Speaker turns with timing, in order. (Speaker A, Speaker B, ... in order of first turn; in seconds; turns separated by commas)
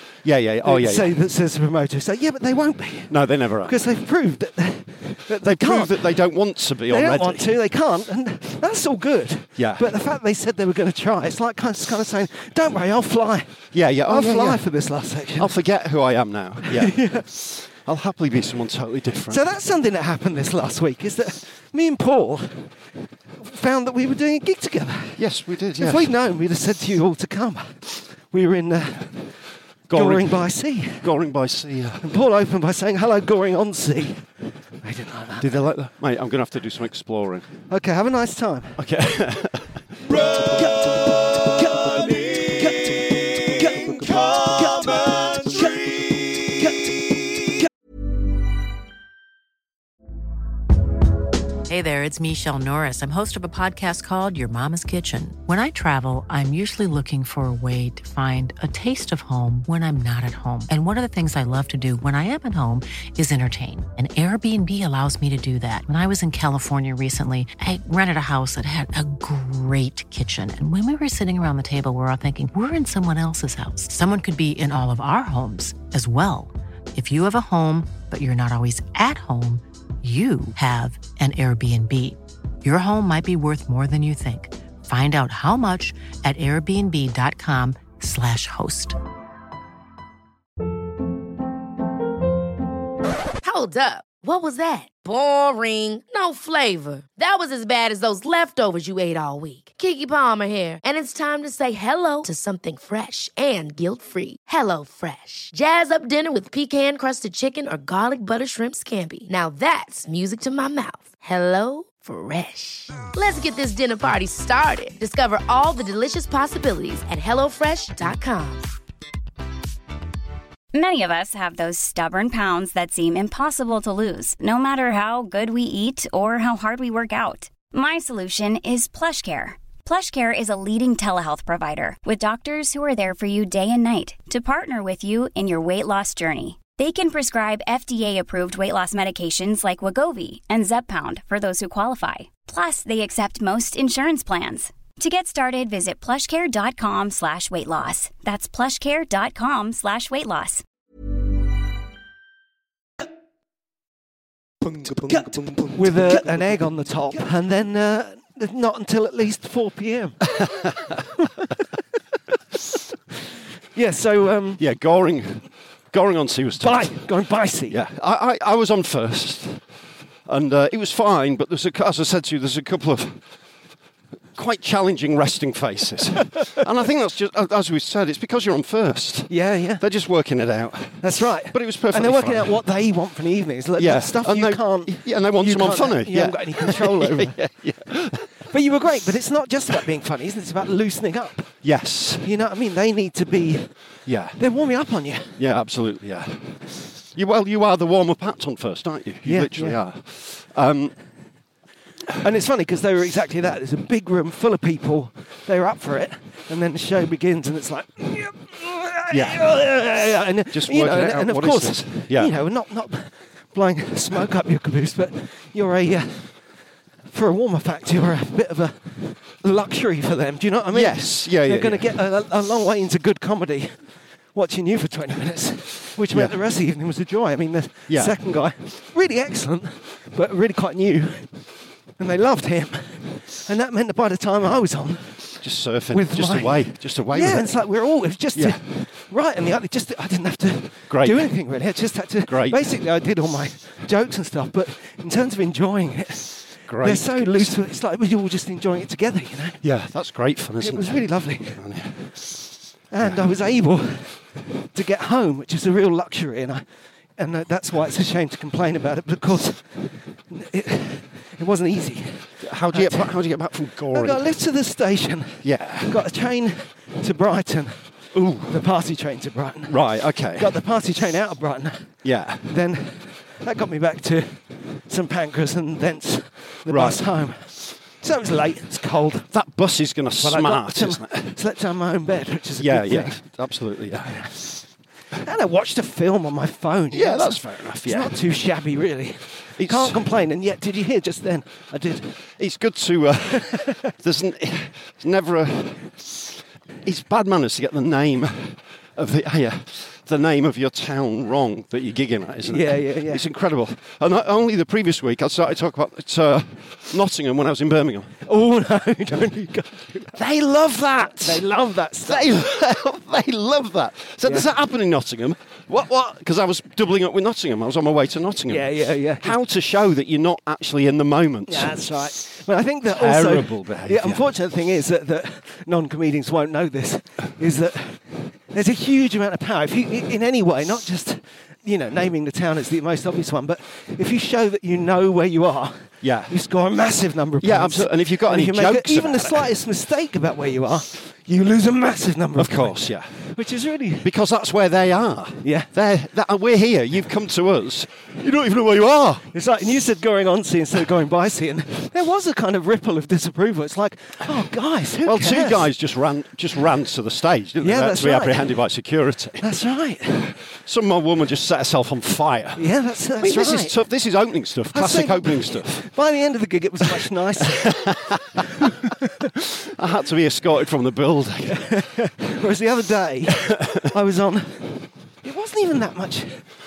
Speaker A: 0.2-1.1, Speaker B: 0.6-6.2, Speaker A: 3.1-3.8, Speaker A: 5.4-7.6, Speaker B: 6.9-15.5, Speaker A: 9.6-9.8, Speaker A: 13.7-14.7, Speaker A: 15.3-19.4, Speaker B: 16.6-17.3, Speaker B: 19.3-22.7, Speaker B: 23.4-25.2, Speaker A: 25.2-26.1, Speaker B: 25.8-31.1, Speaker A: 29.9-32.1, Speaker B: 32.0-34.3, Speaker B: 34.8-35.6, Speaker A: 35.4-37.5, Speaker B: 37.7-38.8, Speaker A: 38.8-40.5, Speaker B: 40.2-47.6, Speaker A: 44.1-45.6, Speaker C: 51.7-89.0, Speaker D: 93.4-118.7, Speaker E: 120.7-150.6, Speaker B: 155.1-160.4, Speaker A: 160.4-160.9, Speaker B: 163.7-164.6, Speaker A: 164.6-167.1, Speaker B: 166.6-167.8, Speaker A: 167.7-169.6, Speaker A: 170.2-173.2, Speaker A: 174.3-182.6, Speaker B: 179.3-179.8, Speaker B: 181.0-187.4, Speaker A: 183.8-188.3, Speaker B: 188.5-191.6, Speaker A: 191.6-192.3, Speaker B: 192.2-193.8, Speaker A: 194.1-194.4, Speaker B: 194.3-195.4, Speaker A: 195.4-200.9, Speaker B: 199.2-199.8, Speaker B: 202.2-216.5, Speaker A: 209.1-209.5, Speaker A: 210.5-212.3, Speaker B: 217.1-231.4, Speaker A: 220.7-221.9, Speaker A: 227.9-228.2, Speaker B: 232.0-249.6, Speaker A: 235.4-237.6, Speaker A: 238.3-238.6, Speaker A: 240.9-241.4, Speaker A: 242.2-242.7, Speaker A: 246.7-247.6, Speaker A: 249.6-252.1, Speaker B: 250.6-251.6, Speaker B: 252.9-256.6, Speaker A: 253.0-253.3, Speaker B: 257.2-263.2, Speaker A: 262.4-264.3, Speaker B: 263.9-279.3, Speaker A: 265.4-266.0, Speaker A: 268.1-268.6, Speaker A: 269.7-270.5, Speaker A: 272.0-272.5, Speaker A: 276.7-277.0, Speaker A: 279.3-281.4, Speaker B: 280.2-283.2, Speaker A: 282.6-284.3, Speaker B: 284.1-284.6, Speaker B: 285.2-292.2, Speaker A: 286.9-288.1, Speaker A: 289.6-290.0, Speaker A: 292.4-296.2, Speaker A: 296.8-308.1, Speaker B: 302.5-303.2, Speaker B: 308.2-310.2, Speaker A: 310.1-311.4, Speaker B: 311.1-312.3, Speaker A: 312.0-321.9, Speaker B: 314.2-314.5, Speaker B: 318.5-319.4, Speaker B: 321.5-344.1, Speaker A: 322.9-324.3, Speaker A: 336.0-336.3, Speaker A: 337.4-339.5, Speaker A: 342.4-343.2, Speaker A: 344.0-349.3, Speaker B: 345.4-345.7, Speaker B: 349.3-355.7, Speaker A: 355.0-359.4, Speaker B: 357.6-358.5, Speaker B: 359.4-360.4, Speaker A: 360.6-365.9, Speaker B: 362.6-363.8, Speaker B: 364.7-367.9, Speaker A: 367.6-368.4, Speaker A: 369.6-371.7, Speaker B: 371.5-376.5, Speaker A: 373.4-373.8